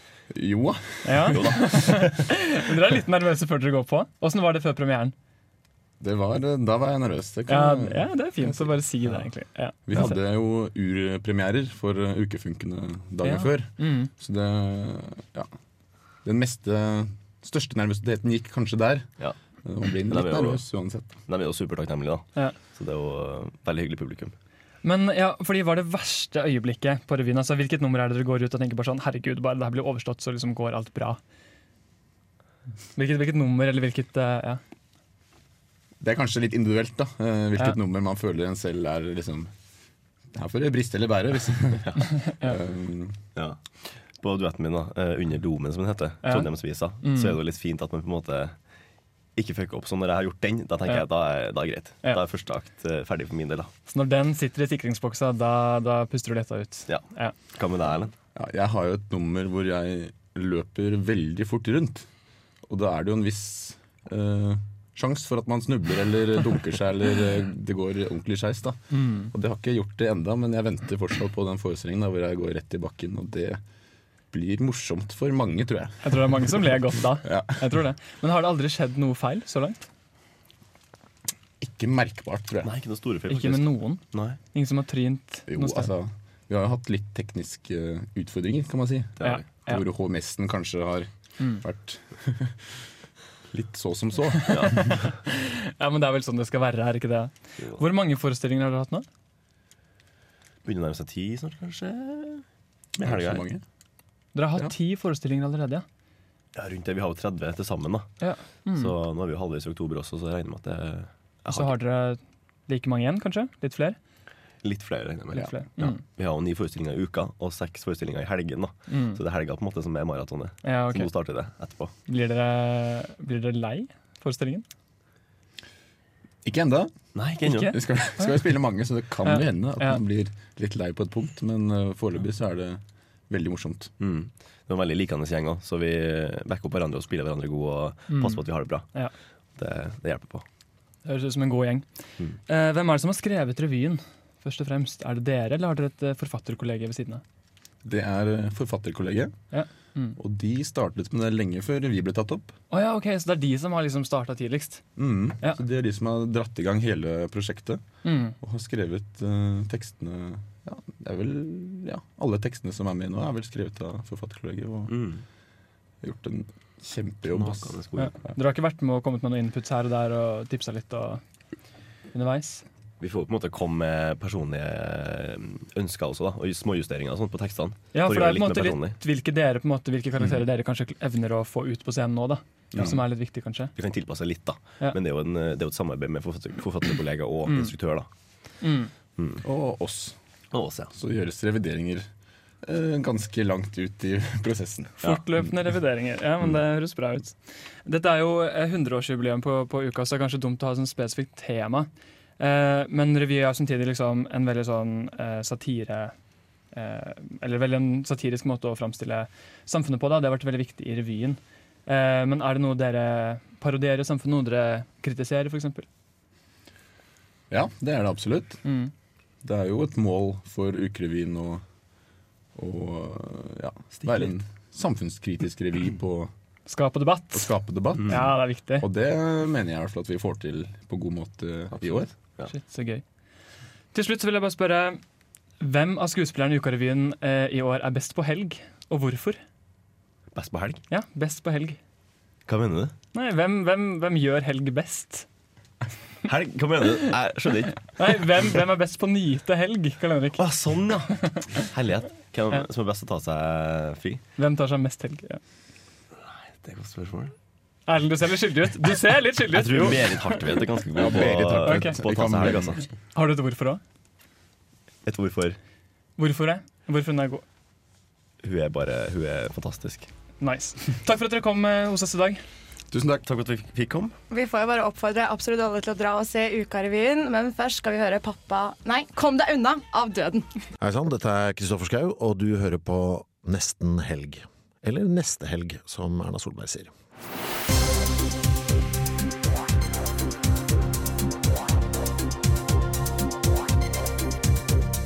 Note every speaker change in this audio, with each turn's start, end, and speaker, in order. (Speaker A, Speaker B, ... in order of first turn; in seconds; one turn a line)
Speaker A: 0.3-1.4
Speaker B: 1.1-5.2
Speaker C: 1.3-2.1
Speaker A: 6.0-9.2
Speaker B: 7.5-10.2
Speaker A: 9.9-15.5
Speaker B: 13.2-14.1
Speaker A: 16.2-21.1
Speaker C: 19.2-24.3
Speaker B: 24.8-31.2
Speaker B: 33.0-34.6
Speaker A: 36.0-39.5
Speaker A: 40.3-43.2
Speaker C: 43.4-53.7
Speaker B: 46.2-47.3
Speaker B: 50.9-52.2
Speaker B: 53.9-57.3
Speaker C: 56.9-58.1
Speaker A: 58.4-62.1
Speaker A: 62.6-73.6
Speaker B: 68.9-69.3
Speaker A: 74.3-77.6
Speaker B: 76.0-79.9
Speaker A: 81.6-82.7
Speaker C: 82.6-84.4
Speaker B: 83.3-85.9
Speaker A: 85.5-92.8
Speaker C: 89.2-89.4
Speaker B: 89.2-89.8
Speaker A: 93.5-94.9
Speaker B: 95.8-99.1
Speaker C: 100.6-103.4
Speaker A: 103.0-103.6
Speaker B: 104.3-105.8
Speaker C: 106.5-111.8
Speaker B: 108.2-108.9
Speaker B: 111.5-114.0
Speaker C: 114.6-121.9
Speaker B: 115.3-116.0
Speaker B: 118.9-119.2
Speaker B: 120.6-124.7
Speaker A: 126.4-133.9
Speaker C: 127.2-127.7
Speaker B: 127.4-128.4
Speaker B: 129.2-130.0
Speaker C: 134.0-140.4
Speaker B: 138.1-139.1
Speaker B: 141.0-147.2
Speaker A: 147.8-149.5
Speaker B: 149.5-150.2
Speaker A: 150.2-152.6
Speaker B: 152.7-155.6
Speaker A: 155.0-165.1
Speaker B: 158.0-158.3
Speaker C: 164.9-165.2
Speaker A: 166.0-168.3
Speaker C: 167.3-168.1
Speaker B: 168.0-171.2
Speaker B: 172.1-172.7
Speaker C: 173.0-179.0
Speaker B: 177.9-183.8
Speaker A: 182.7-183.0
Speaker C: 183.8-188.6
Speaker B: 187.5-188.0
Speaker B: 188.6-188.9
Speaker C: 189.2-189.4
Speaker A: 189.4-190.2
Speaker C: 190.5-190.9
Speaker A: 190.8-192.1
Speaker A: 192.6-195.5
Speaker B: 195.0-215.9
Speaker A: 217.5-218.6
Speaker B: 218.6-218.9
Speaker A: 219.4-221.6
Speaker A: 222.5-226.3
Speaker B: 226.7-228.9
Speaker A: 227.3-232.1
Speaker C: 231.7-232.5
Speaker B: 232.5-233.1
Speaker B: 233.9-235.0
Speaker B: 235.6-239.4
Speaker C: 240.3-240.8
Speaker B: 240.9-241.8
Speaker C: 242.5-242.9
Speaker B: 243.1-245.3
Speaker C: 246.2-248.2
Speaker B: 247.9-250.6
Speaker C: 250.4-254.2
Speaker B: 254.4-255.4
Speaker C: 256.3-257.3
Speaker B: 257.9-260.6
Speaker C: 259.5-262.9
Speaker A: 261.0-262.8
Speaker B: 261.7-262.0
Speaker B: 263.1-263.8
Speaker C: 265.1-265.6
Speaker B: 266.2-267.4
Speaker C: 268.4-270.1
Speaker B: 270.4-272.4
Speaker A: 272.9-273.2
Speaker C: 273.2-274.1
Speaker D: 274.3-280.7
Speaker E: 280.8-286.9